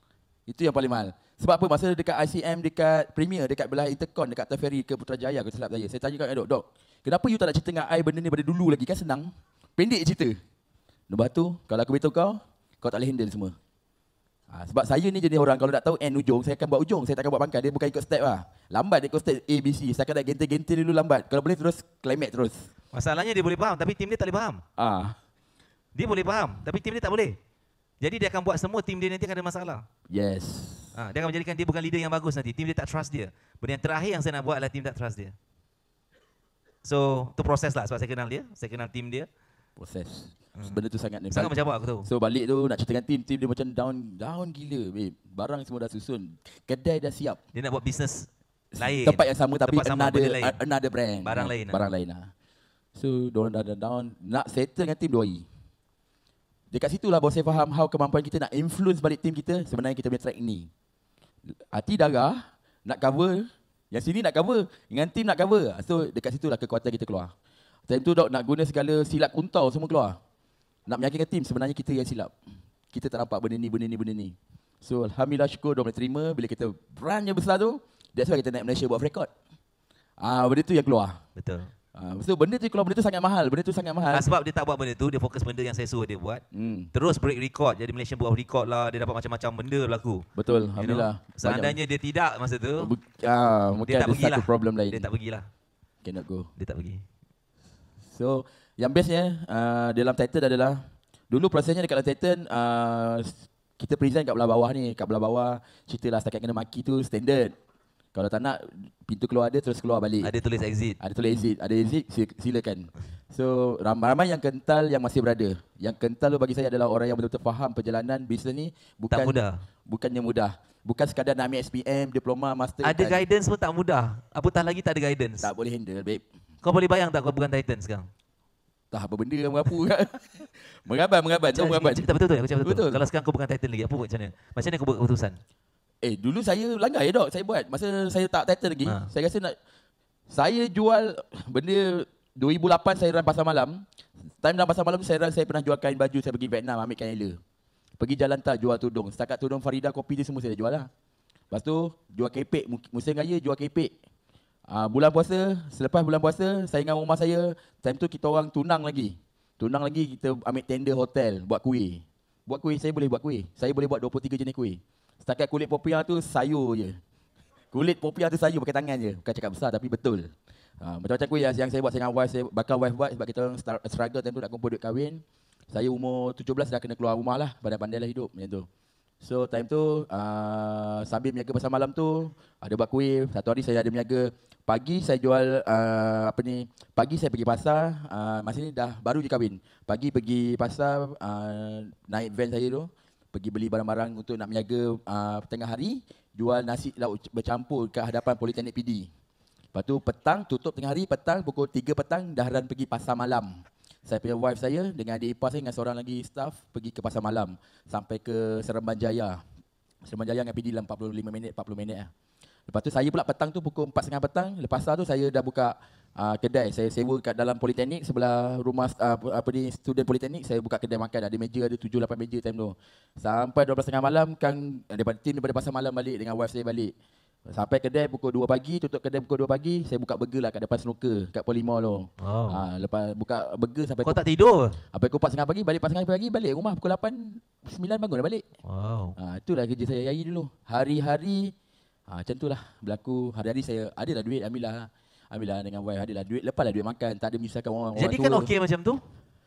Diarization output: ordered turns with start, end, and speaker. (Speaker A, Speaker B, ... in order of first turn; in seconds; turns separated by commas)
Speaker A: 0.5-10.4, Speaker A: 11.1-13.6, Speaker A: 14.5-22.7, Speaker B: 22.9-24.6, Speaker A: 24.8-25.2, Speaker B: 25.9-27.4, Speaker B: 28.0-29.9, Speaker A: 30.1-30.9, Speaker B: 30.9-35.4, Speaker B: 36.8-39.3, Speaker A: 39.8-47.4, Speaker B: 40.5-40.8, Speaker B: 41.3-42.1, Speaker B: 47.5-50.6, Speaker A: 48.8-52.3, Speaker B: 51.2-51.9, Speaker A: 53.0-55.5, Speaker A: 56.7-60.7, Speaker A: 61.7-67.3, Speaker A: 67.9-70.2, Speaker A: 70.9-72.3, Speaker A: 72.9-79.3, Speaker A: 80.2-81.2, Speaker B: 81.4-81.7, Speaker A: 82.0-84.3, Speaker B: 84.1-86.4, Speaker A: 86.5-86.9, Speaker B: 86.9-90.3, Speaker A: 90.4-91.8, Speaker B: 90.8-92.9, Speaker A: 92.8-95.1, Speaker B: 93.8-95.5, Speaker A: 96.0-96.5, Speaker B: 96.6-97.0, Speaker A: 98.1-107.5, Speaker A: 108.1-110.3, Speaker B: 110.2-111.0, Speaker A: 111.0-123.3, Speaker B: 119.1-119.6, Speaker B: 122.8-125.5, Speaker A: 125.4-126.2, Speaker B: 126.6-128.1, Speaker A: 128.9-133.0, Speaker B: 131.5-135.4, Speaker A: 136.0-139.6, Speaker A: 140.3-143.8, Speaker A: 144.4-147.4, Speaker A: 148.0-150.9, Speaker A: 151.5-153.9, Speaker A: 154.7-167.0, Speaker A: 167.7-178.7, Speaker A: 179.2-199.1, Speaker A: 199.7-209.4, Speaker A: 210.1-212.1, Speaker A: 212.7-226.9, Speaker A: 227.5-234.2, Speaker B: 232.2-232.7, Speaker B: 234.0-234.8, Speaker A: 234.9-238.4, Speaker B: 238.7-239.2, Speaker A: 239.2-241.5, Speaker A: 242.1-248.5, Speaker B: 248.0-249.0